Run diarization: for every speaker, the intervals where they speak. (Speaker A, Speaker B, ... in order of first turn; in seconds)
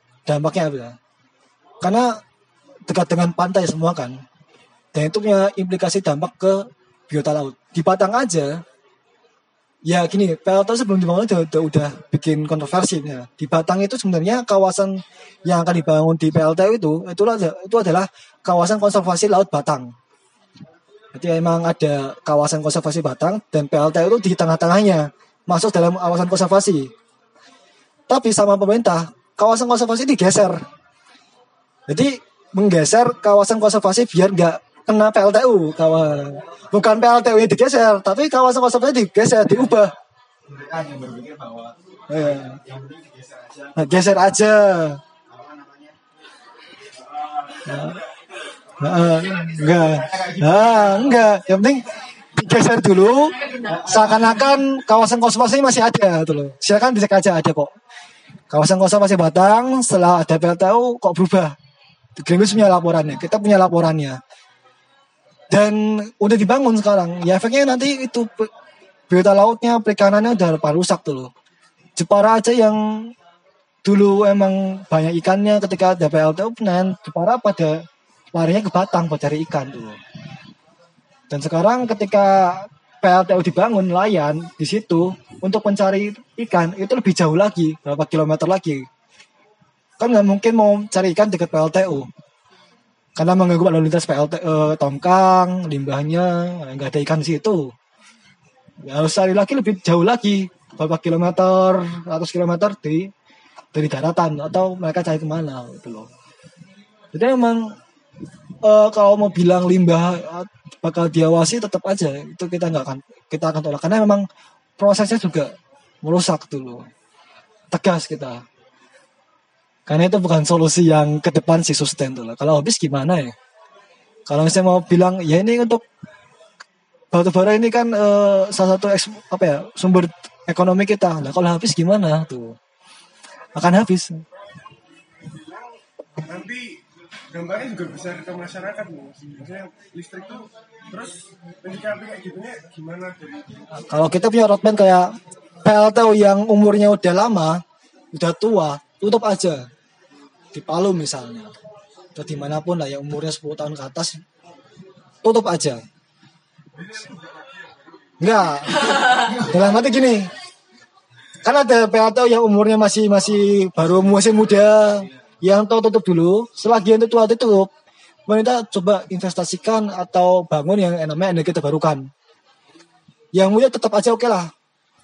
Speaker A: 0.3-1.0, 1.8-2.2, 2.9-4.2, 4.9-8.6, 9.8-19.9, 21.1-26.9, 28.1-30.6, 31.9-39.9, 42.1-42.6, 43.8-45.0, 47.7-48.0, 48.8-57.7, 58.5-61.5, 62.2-64.2, 65.5-68.5, 69.1-71.3, 72.0-73.1, 73.8-80.0, 81.3-88.9, 90.0-92.1, 93.2-97.7, 98.8-103.1, 103.7-106.1, 107.1-107.8, 108.6-114.3, 114.8-116.9, 117.7-118.5, 119.9-123.4, 124.3-125.8, 127.1-132.6, 133.6-134.2, 143.7-149.7, 150.5-151.5, 152.2-154.2, 155.2-155.8, 158.2-160.3, 161.4-167.7, 168.3-172.1, 173.3-174.5
Speaker B: 40.5-44.2, 45.3-46.0, 47.2-48.0, 49.3-51.1, 53.7-54.0
Speaker C: 135.2-136.8, 137.3-143.6, 156.7-158.1